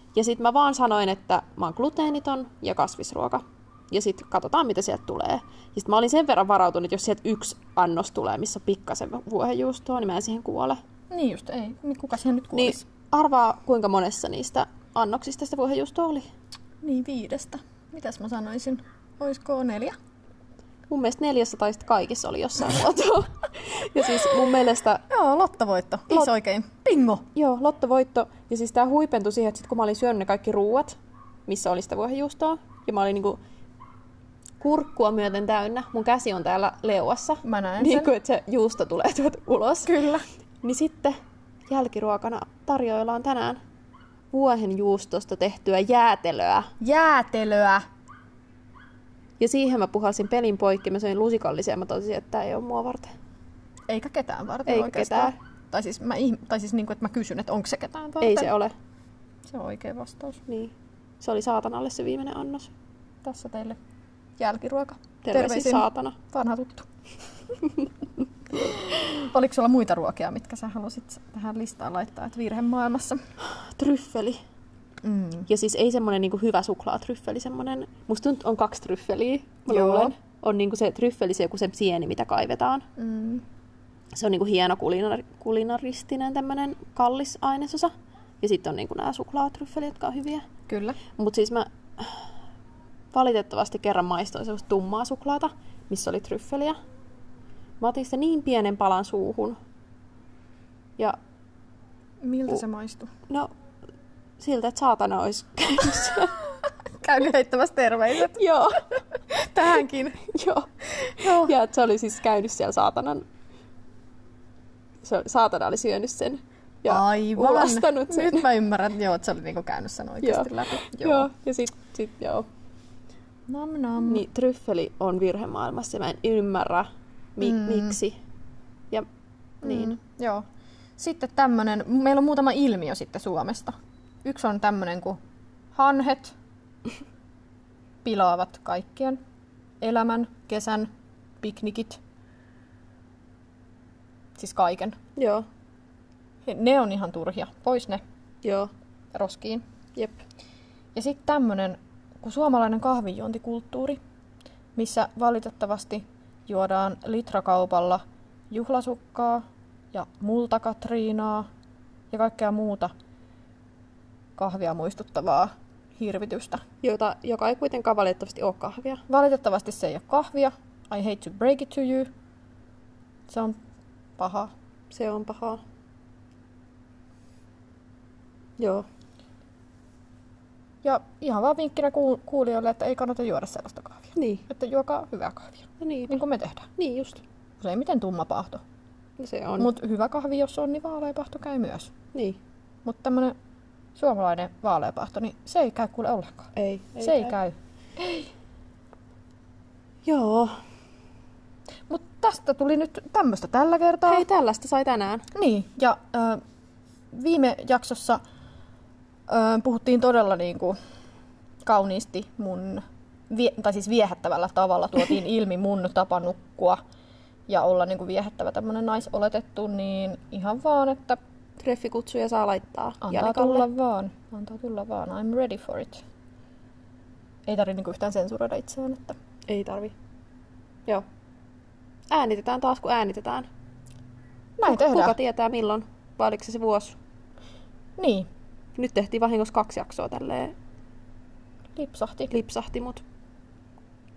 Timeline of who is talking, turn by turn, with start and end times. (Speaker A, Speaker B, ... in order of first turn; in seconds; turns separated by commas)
Speaker A: 0.1-10.8, Speaker B: 11.1-12.8, Speaker A: 12.5-16.3, Speaker B: 16.8-19.9, Speaker A: 20.9-25.0, Speaker B: 25.1-27.2, Speaker A: 27.3-30.9, Speaker A: 31.5-33.4, Speaker A: 34.6-40.0, Speaker B: 37.4-38.1, Speaker B: 39.9-40.2, Speaker A: 40.6-41.2, Speaker A: 41.7-43.6, Speaker A: 44.3-46.7, Speaker B: 46.8-47.8, Speaker A: 49.4-53.1, Speaker B: 53.9-58.5, Speaker A: 54.6-55.3, Speaker A: 58.2-58.7, Speaker B: 59.5-60.4, Speaker A: 60.5-62.7, Speaker B: 63.2-63.8, Speaker B: 64.4-66.9, Speaker A: 65.2-66.2, Speaker B: 68.5-73.2, Speaker A: 73.5-74.4, Speaker B: 75.0-75.5, Speaker A: 75.5-82.8, Speaker B: 79.7-80.1, Speaker B: 83.0-83.4, Speaker A: 84.1-90.4, Speaker B: 90.7-91.0, Speaker A: 91.2-92.1, Speaker A: 93.1-96.8, Speaker A: 97.8-99.6, Speaker B: 102.2-103.1, Speaker A: 104.4-106.4, Speaker B: 107.0-108.4, Speaker A: 108.3-108.8, Speaker B: 109.3-110.2, Speaker A: 110.3-113.2, Speaker B: 111.2-111.5, Speaker A: 115.0-118.5, Speaker B: 116.9-121.3, Speaker A: 120.2-122.5, Speaker B: 123.5-124.2, Speaker A: 124.0-128.2, Speaker B: 127.4-128.0, Speaker B: 129.6-130.4, Speaker A: 129.6-129.9, Speaker B: 131.0-133.7, Speaker B: 134.2-135.2, Speaker B: 135.7-136.3, Speaker B: 138.0-139.2, Speaker B: 139.8-140.9, Speaker B: 141.4-142.0, Speaker B: 144.3-144.9, Speaker A: 145.2-145.4, Speaker B: 146.4-148.0, Speaker A: 148.4-148.7, Speaker B: 149.1-149.6, Speaker B: 150.9-154.0, Speaker B: 154.8-161.5, Speaker B: 162.1-162.9, Speaker B: 164.4-166.6, Speaker A: 166.8-169.0, Speaker B: 169.1-172.1, Speaker B: 173.3-173.6, Speaker B: 174.2-174.5, Speaker A: 174.9-175.6, Speaker A: 178.6-178.8, Speaker B: 180.8-186.7, Speaker A: 184.2-184.4, Speaker A: 185.8-186.2, Speaker A: 186.8-187.2, Speaker B: 187.6-188.6, Speaker A: 189.2-189.7, Speaker B: 189.6-191.9, Speaker A: 192.1-192.4, Speaker B: 192.8-193.3, Speaker B: 193.9-198.3, Speaker A: 196.5-197.3, Speaker A: 200.0-200.5, Speaker B: 201.9-204.3, Speaker A: 204.1-205.2, Speaker B: 205.3-206.4, Speaker B: 207.1-208.2, Speaker B: 209.3-210.8, Speaker B: 211.6-216.8, Speaker B: 217.5-221.2, Speaker A: 221.6-223.7, Speaker B: 223.0-226.0, Speaker B: 227.4-229.2, Speaker A: 229.5-229.9, Speaker A: 232.1-233.5, Speaker B: 234.6-235.2, Speaker A: 234.6-237.0, Speaker B: 238.0-238.3, Speaker A: 238.8-240.5, Speaker B: 241.8-242.3, Speaker A: 242.3-243.0